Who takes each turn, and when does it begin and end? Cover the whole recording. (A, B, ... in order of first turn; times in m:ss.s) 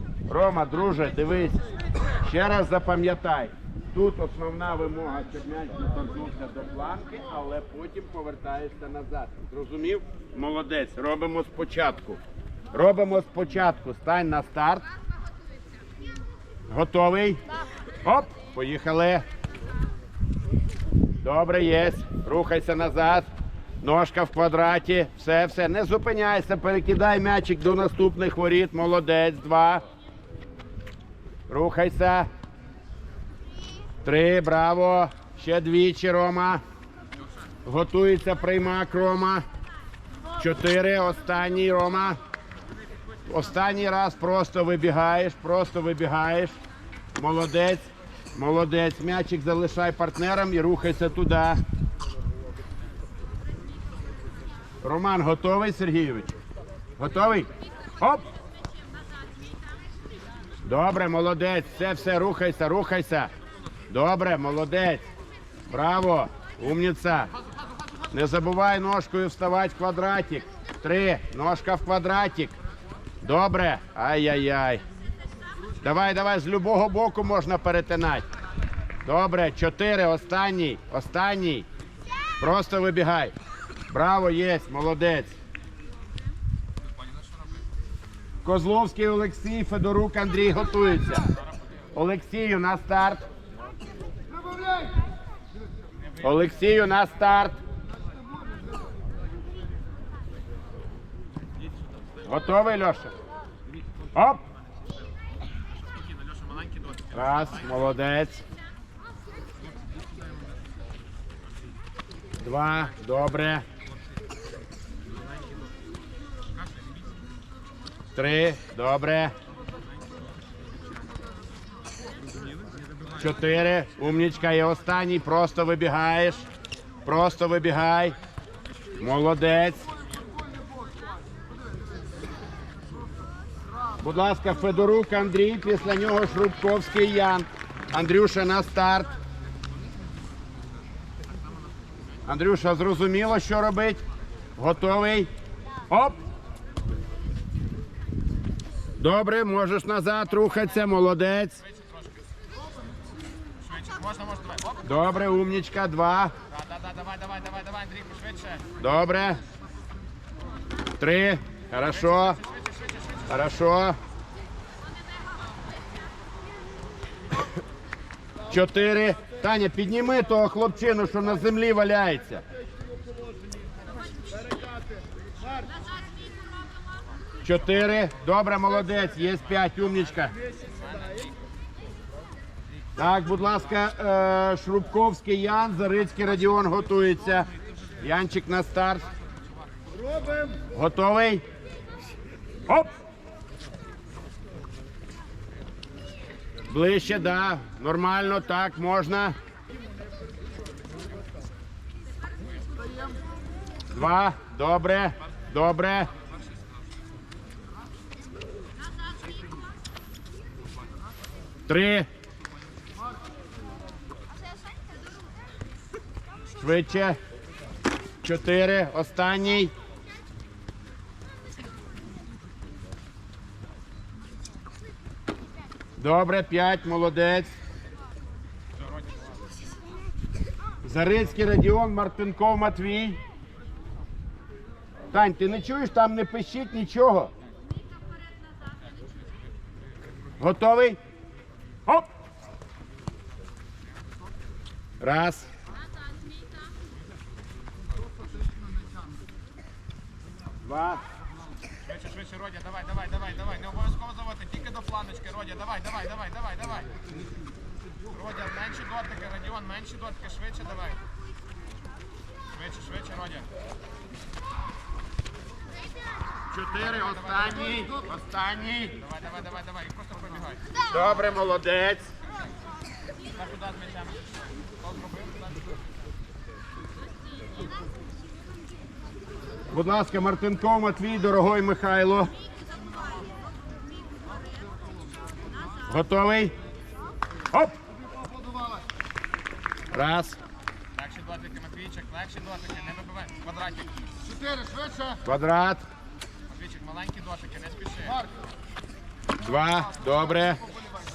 0:00.3-0:01.6 A
0:02.2-0:12.2 A
0:12.7-0:14.8 A
0:16.7-0:17.4 A
0:18.0-0:19.3 A
0:21.2-0:23.3 A
0:23.8-0:29.8 A
0:31.5-0:32.3 A
0:34.0-0:36.6 A
0:37.6-0:39.4 A
0:40.4-0:42.2 A
0:43.3-0:46.6 A
0:47.2-0:51.6 A
0:54.8-0:56.4 A
0:57.0-0:58.3 A
1:00.7-1:03.3 A
1:03.9-1:05.1 A
1:05.7-1:07.3 A
1:08.1-1:12.5 A
1:13.2-1:14.8 A
1:15.8-1:18.2 A
1:19.0-1:21.7 A
1:22.4-1:23.3 A
1:23.9-1:25.4 A
1:28.4-1:31.3 A
1:31.9-1:33.3 A
1:34.4-1:34.9 B
1:36.2-1:37.6 A
1:42.3-1:43.1 A
1:44.1-1:44.4 A
1:46.6-1:47.0 C
1:47.1-1:48.4 A
1:52.4-1:53.6 A
1:58.2-1:59.3 A
2:03.2-2:06.5 A
2:07.0-2:08.2 A
2:09.0-2:09.9 A
2:14.0-2:19.1 A
2:22.3-2:24.0 A
2:24.6-2:25.3 A
2:25.9-2:26.2 A
2:29.0-2:31.6 A
2:33.7-2:34.8 C
2:34.8-2:36.3 A
2:36.5-2:38.7 C
2:38.8-2:39.4 A
2:41.0-2:42.4 A
2:43.2-2:44.0 A
2:48.5-2:52.4 A
2:57.4-3:00.4 A
3:03.0-3:09.1 A
3:10.7-3:11.4 A
3:16.7-3:19.4 A
3:23.9-3:26.1 A
3:31.7-3:32.1 A
3:36.6-3:37.2 A
3:38.2-3:39.7 A
3:46.0-3:47.5 A
3:50.8-3:53.2 A
3:55.1-3:57.3 A
4:00.4-4:01.0 A
4:05.0-4:05.5 A
4:10.6-4:11.0 A
4:11.9-4:16.9 C
4:18.2-4:21.0 C
4:22.6-4:23.5 C
4:26.5-4:29.0 A
4:29.2-4:30.6 C
4:30.8-4:32.1 A
4:33.4-4:34.1 C
4:35.0-4:35.4 C
4:39.7-4:42.3 A
4:42.8-4:43.3 B
4:44.4-4:44.8 B
4:45.8-4:46.6 A
4:48.1-4:48.8 B
4:49.9-4:50.4 A
4:51.0-4:53.9 C
4:54.1-4:55.2 B
4:55.2-4:55.8 A
4:56.5-4:58.0 C
4:58.0-4:58.3 B
4:59.4-5:00.6 A